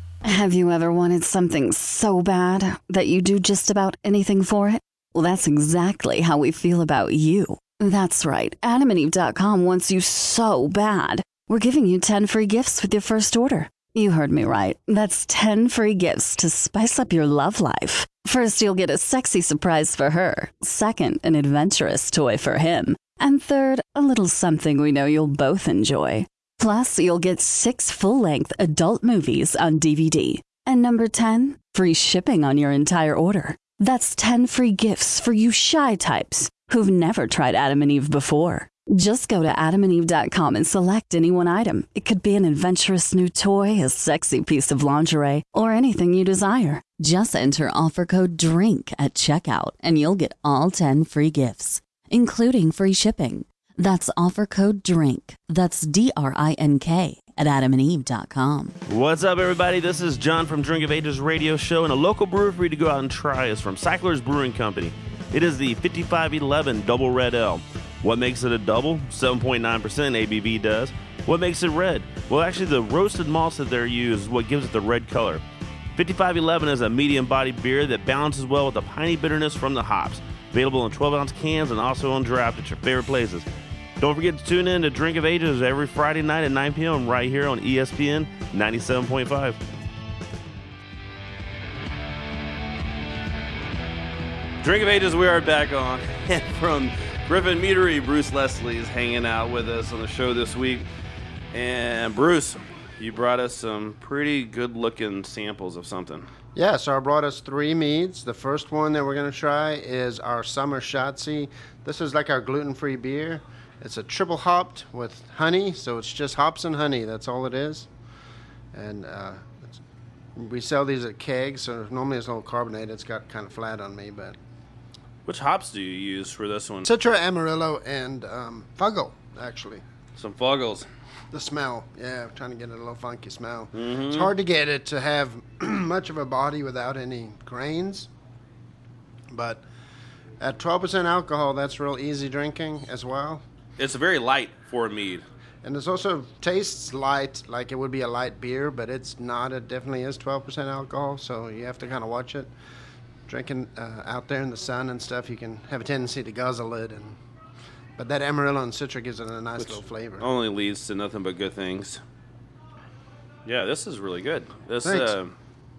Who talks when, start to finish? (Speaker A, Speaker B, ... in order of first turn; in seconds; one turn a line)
Speaker A: 0.2-58.7
Speaker B: 58.9-75.4
Speaker B: 76.0-83.5
Speaker B: 84.0-89.6
Speaker B: 94.6-100.9
Speaker B: 101.5-106.3
Speaker C: 106.5-117.9
Speaker C: 118.7-119.8
Speaker C: 120.3-124.4
Speaker B: 125.2-126.9
Speaker C: 126.8-129.8
Speaker B: 130.2-130.9
Speaker C: 131.3-138.1
Speaker B: 133.7-134.3
Speaker C: 139.3-139.6
Speaker C: 140.4-143.4
Speaker B: 143.8-145.2
Speaker C: 145.6-152.5
Speaker C: 153.3-157.2
Speaker C: 158.0-160.3
Speaker B: 159.6-162.0
Speaker B: 163.4-165.3
Speaker C: 164.8-165.1